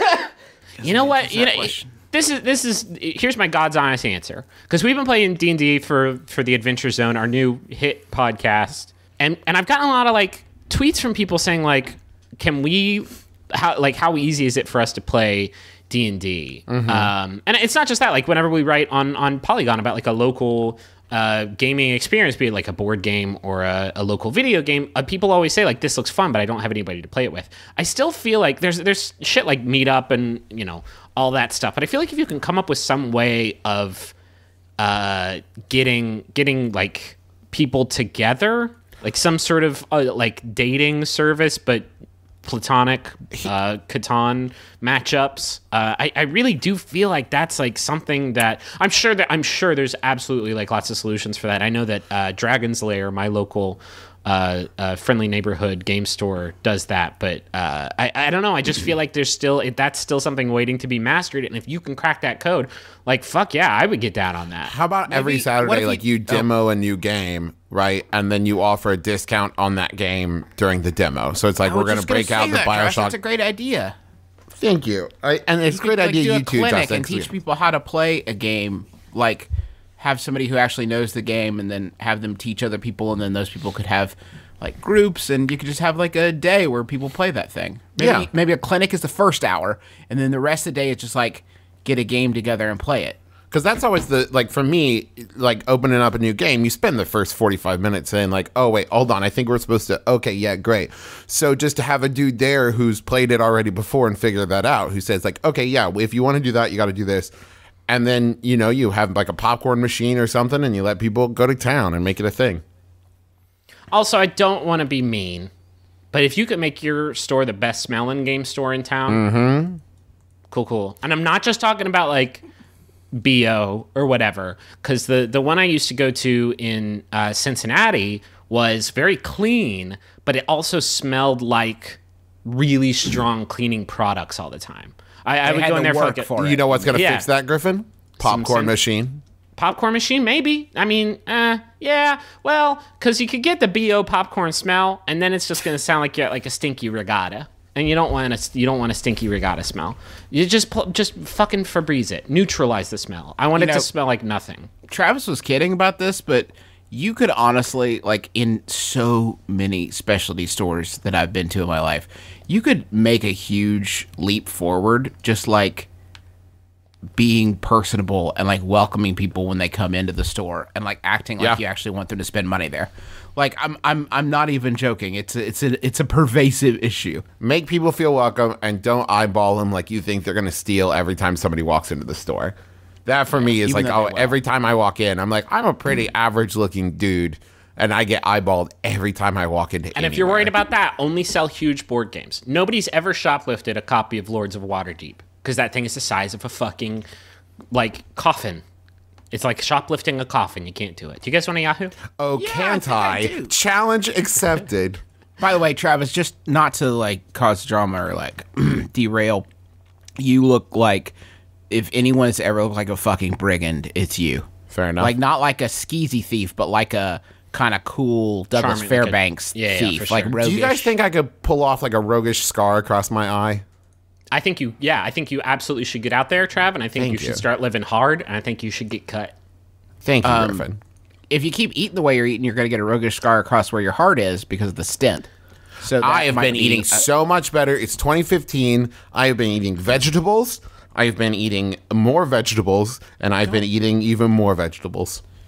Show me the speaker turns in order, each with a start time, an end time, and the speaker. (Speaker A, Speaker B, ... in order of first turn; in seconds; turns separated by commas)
Speaker A: 0.8-1.9, Speaker B: 0.8-34.1, Speaker C: 16.7-17.1, Speaker B: 34.8-41.9, Speaker B: 42.4-64.7, Speaker C: 64.7-73.2, Speaker A: 65.1-66.5, Speaker A: 71.6-73.9, Speaker C: 74.6-77.3, Speaker A: 75.7-93.2, Speaker C: 88.0-88.3, Speaker C: 93.5-107.3, Speaker C: 107.9-112.6, Speaker B: 113.9-115.5, Speaker B: 116.1-119.2, Speaker C: 119.1-119.8, Speaker B: 120.5-122.4, Speaker B: 123.1-136.3, Speaker A: 135.4-136.9, Speaker C: 136.4-139.2, Speaker B: 136.9-137.3, Speaker B: 138.2-138.8, Speaker B: 139.6-154.7, Speaker A: 153.6-153.9, Speaker A: 154.9-165.9, Speaker A: 167.2-177.2, Speaker C: 177.4-182.6, Speaker C: 183.1-190.5, Speaker A: 183.3-184.4, Speaker B: 190.0-197.1, Speaker B: 197.7-198.6, Speaker B: 199.3-202.0, Speaker C: 202.2-205.0, Speaker A: 202.4-203.5, Speaker A: 205.4-209.5, Speaker A: 210.2-211.2, Speaker A: 211.7-214.5, Speaker C: 214.7-215.1, Speaker A: 215.0-220.9, Speaker B: 218.5-220.4, Speaker C: 220.4-223.6, Speaker B: 224.3-229.3, Speaker C: 227.0-227.4, Speaker C: 230.0-230.8, Speaker A: 230.2-230.7, Speaker A: 231.3-235.3, Speaker A: 235.8-237.1, Speaker C: 236.0-245.2